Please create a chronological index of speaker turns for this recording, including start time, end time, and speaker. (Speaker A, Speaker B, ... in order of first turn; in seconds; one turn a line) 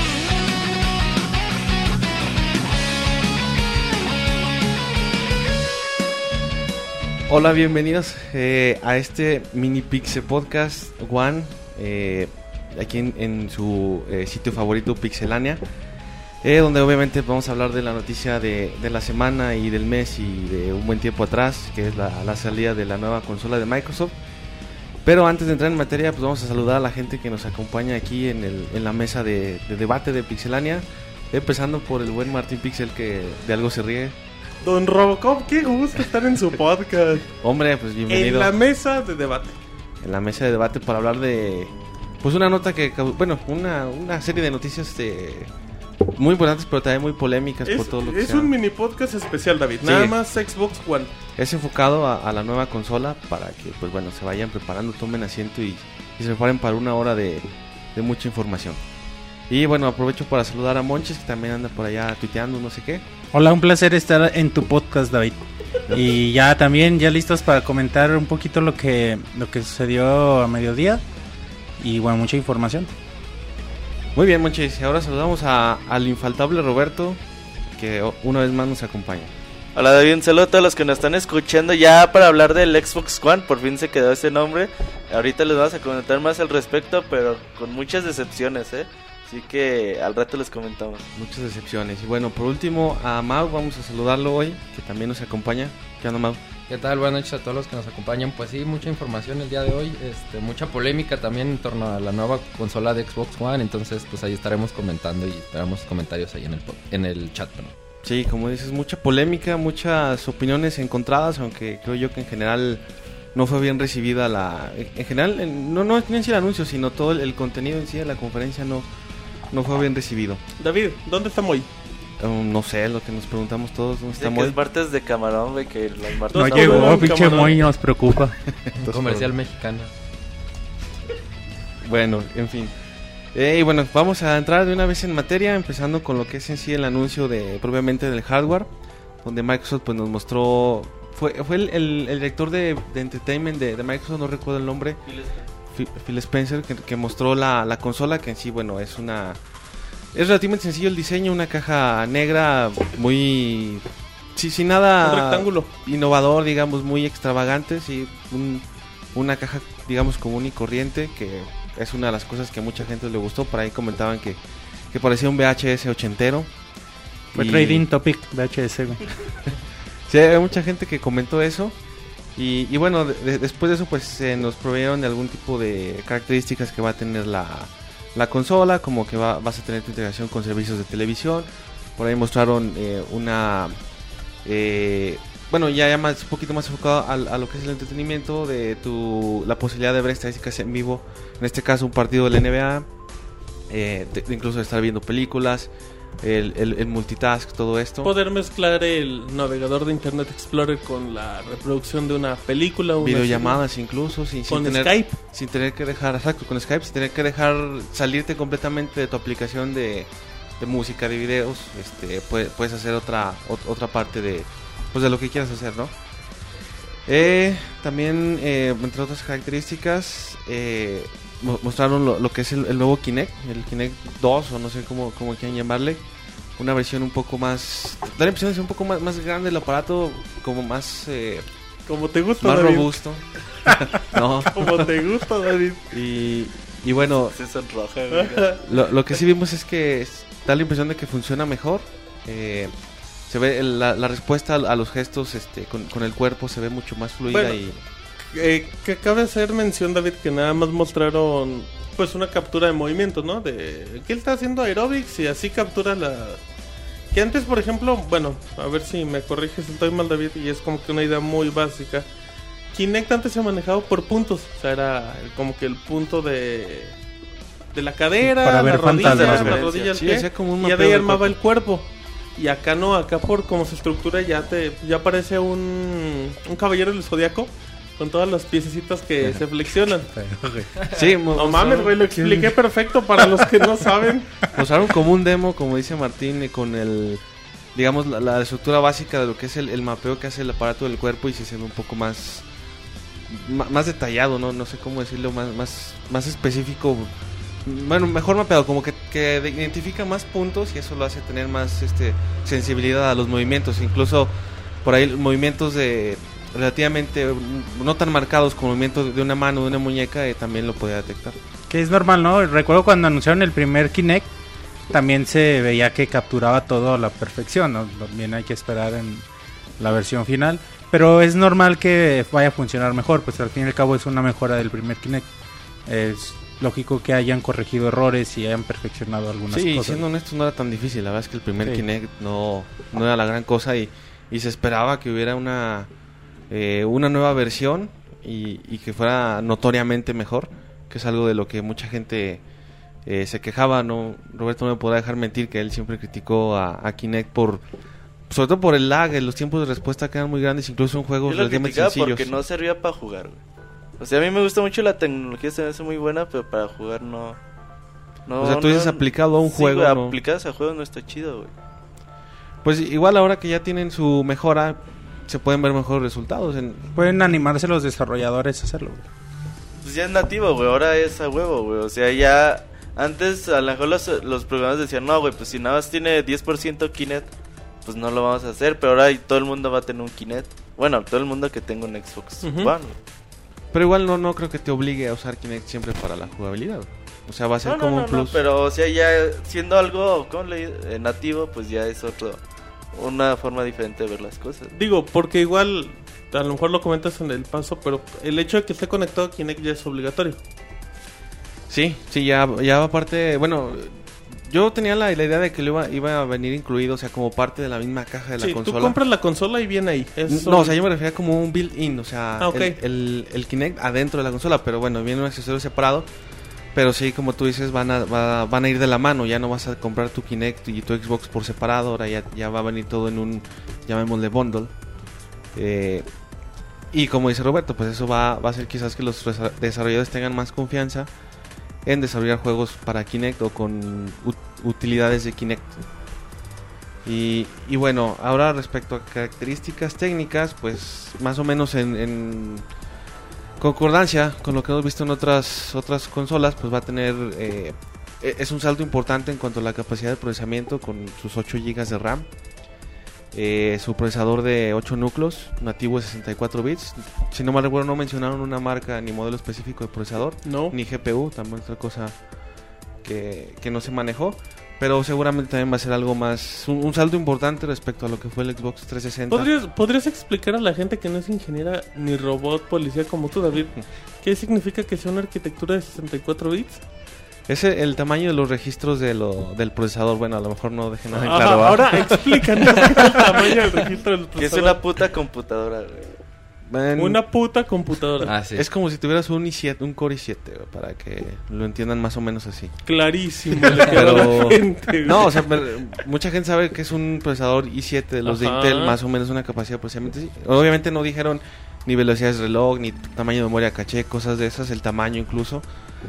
Speaker A: 7.3-15.6
Speaker A: 16.4-24.1
Speaker A: 25.0-34.2
Speaker B: 34.6-37.3
Speaker A: 37.4-38.5
Speaker B: 38.1-39.6
Speaker A: 40.0-45.5
Speaker A: 46.1-48.5
Speaker B: 47.6-51.1
Speaker A: 49.8-50.2
Speaker A: 51.4-58.8
Speaker A: 59.5-63.0
Speaker C: 63.3-65.4
Speaker C: 65.9-71.0
Speaker C: 71.8-72.9
Speaker A: 74.1-77.2
Speaker A: 77.7-79.3
Speaker D: 79.7-91.1
Speaker A: 91.1-96.4
Speaker E: 96.7-107.7
Speaker A: 108.0-112.8
Speaker A: 113.3-118.9
Speaker A: 119.5-120.4
Speaker B: 120.6-121.7
Speaker A: 122.2-124.6
Speaker D: 124.1-127.5
Speaker B: 126.3-127.6
Speaker C: 126.3-128.4
Speaker A: 128.5-129.3
Speaker E: 128.7-129.9
Speaker A: 131.8-132.7
Speaker A: 133.3-138.7
Speaker A: 139.2-145.0
Speaker D: 145.1-145.4
Speaker A: 145.7-149.4
Speaker A: 150.1-164.4
Speaker B: 155.0-155.7
Speaker A: 164.9-166.5
Speaker A: 167.3-167.9
Speaker C: 167.3-169.0
Speaker A: 170.1-171.7
Speaker A: 172.3-183.8
Speaker A: 184.4-192.9
Speaker A: 193.7-198.1
Speaker B: 198.0-203.6
Speaker A: 203.0-215.9
Speaker B: 204.5-205.2
Speaker A: 217.1-226.0
Speaker A: 226.6-231.4
Speaker B: 231.9-232.9
Speaker A: 232.4-235.0
Speaker B: 234.4-235.9
Speaker A: 235.9-237.3
Speaker D: 237.3-238.6
Speaker B: 238.1-238.6
Speaker A: 238.6-242.7
Speaker A: 243.3-247.8
Speaker B: 247.3-247.6
Speaker B: 248.3-256.4
Speaker B: 257.1-262.1
Speaker B: 262.7-267.0
Speaker B: 267.7-280.1
Speaker C: 268.2-269.6
Speaker D: 269.0-269.9
Speaker A: 269.7-271.4
Speaker C: 280.1-280.7
Speaker A: 280.9-282.1
Speaker B: 281.3-284.3
Speaker A: 284.5-287.2
Speaker A: 287.7-292.5
Speaker A: 293.3-297.1
Speaker A: 297.6-304.3
Speaker A: 304.8-311.4
Speaker C: 311.7-314.3
Speaker C: 314.9-319.2
Speaker C: 319.8-325.3
Speaker C: 325.9-330.0
Speaker A: 329.5-335.9
Speaker A: 336.5-342.4
Speaker A: 343.1-347.6
Speaker A: 348.3-352.3
Speaker D: 351.2-353.4
Speaker D: 354.0-357.4
Speaker D: 358.3-361.5
Speaker A: 358.4-360.2
Speaker A: 362.6-366.9
Speaker C: 366.9-369.0
Speaker D: 369.8-377.3
Speaker D: 377.8-382.9
Speaker B: 382.4-382.7
Speaker A: 383.7-388.4
Speaker D: 387.6-392.4
Speaker D: 392.9-394.7
Speaker B: 394.7-400.4
Speaker A: 401.7-409.0
Speaker B: 408.4-410.8
Speaker A: 410.3-416.1
Speaker B: 412.4-412.8
Speaker A: 416.7-424.7
Speaker A: 425.5-426.1
Speaker A: 426.9-431.1
Speaker A: 431.8-435.8
Speaker A: 437.0-442.6
Speaker A: 443.6-452.3
Speaker A: 453.3-462.1
Speaker B: 460.4-460.8
Speaker A: 463.0-469.5
Speaker B: 469.3-476.8
Speaker A: 477.5-483.1
Speaker B: 481.2-484.8
Speaker D: 484.4-486.1
Speaker A: 486.7-487.2
Speaker B: 487.0-488.3
Speaker E: 488.2-488.7
Speaker A: 488.5-492.8
Speaker B: 492.8-495.4
Speaker A: 493.8-505.6
Speaker B: 498.2-499.0